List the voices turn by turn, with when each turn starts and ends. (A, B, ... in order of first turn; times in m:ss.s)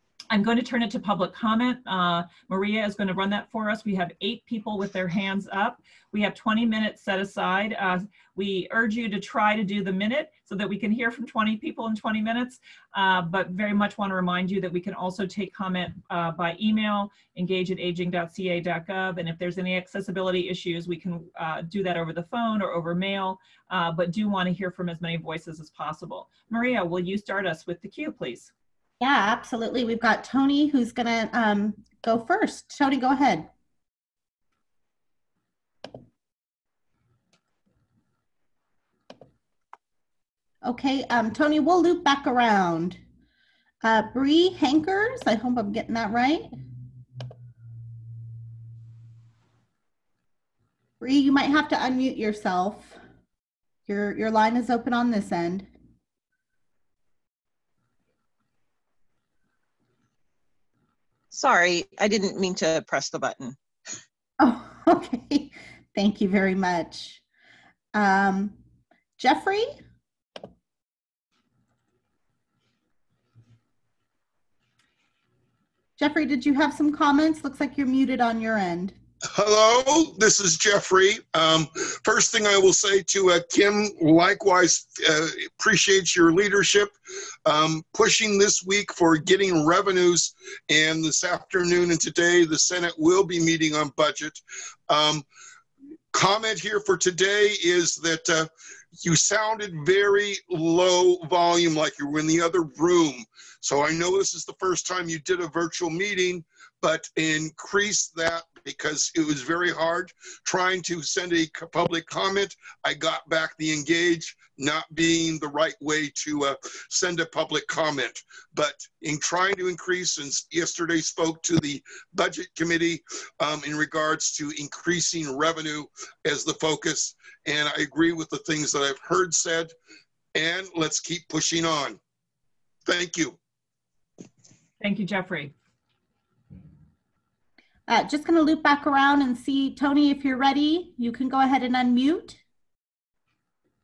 0:00.3-0:28.5 A
0:29.0-0:33.5 B
0:40.6-0:43.0 B
0:43.8-0:46.5 B
0:51.0-0:53.0 B
0:53.9-0:55.7 B
1:01.3-1:03.6 C
1:04.4-1:07.2 B
1:07.9-1:08.6 B
1:09.2-1:09.8 B
1:16.0-1:19.0 B
1:19.4-1:26.9 D
1:27.4-1:35.2 D
1:36.1-1:38.5 D
1:39.0-2:09.7 D
2:10.3-2:12.0 D
2:12.9-2:13.4 D
2:14.8-2:15.5 A
2:17.9-2:22.4 B